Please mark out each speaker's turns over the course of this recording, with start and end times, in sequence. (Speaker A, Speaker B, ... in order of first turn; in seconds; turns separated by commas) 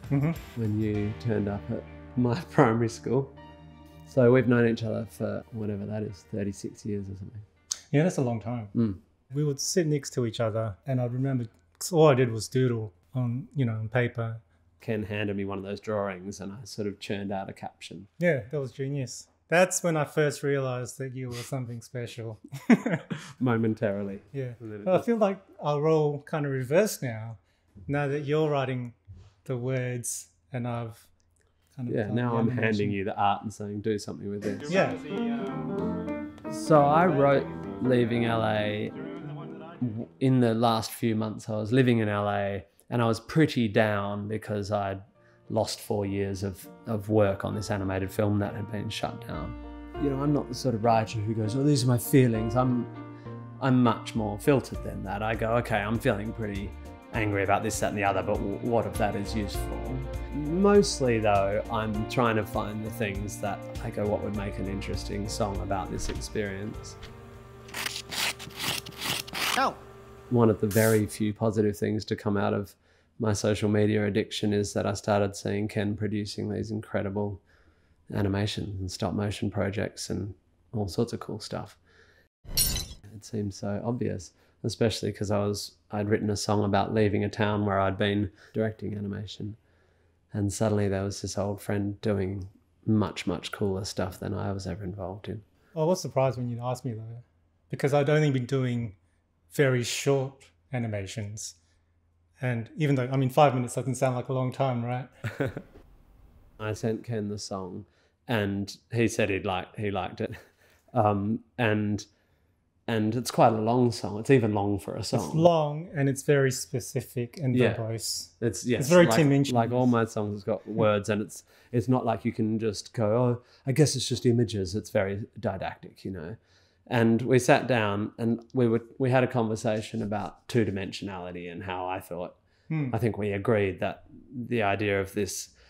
Speaker A: 0.1-0.4, Speaker B: 0.5-3.3, Speaker B: 4.1-7.4, Speaker A: 7.9-8.7, Speaker B: 8.7-9.0, Speaker A: 9.3-14.4, Speaker B: 14.8-18.1, Speaker A: 18.2-23.0, Speaker B: 23.4-25.1, Speaker A: 24.3-31.1, Speaker A: 31.7-33.0, Speaker B: 31.9-34.8, Speaker A: 34.7-35.7, Speaker B: 36.5-38.9, Speaker A: 39.1-39.8, Speaker B: 39.8-52.9, Speaker B: 53.6-67.0, Speaker B: 70.3-77.4, Speaker B: 78.1-81.8, Speaker B: 83.1-89.5, Speaker B: 90.3-95.4, Speaker A: 95.7-99.0, Speaker A: 99.5-101.6, Speaker A: 102.4-105.1, Speaker B: 106.6-110.3, Speaker B: 110.9-112.0, Speaker B: 112.9-115.5, Speaker A: 115.1-119.9, Speaker B: 117.5-117.8, Speaker B: 118.4-126.3, Speaker B: 126.9-132.3, Speaker A: 132.7-132.9, Speaker B: 132.9-135.5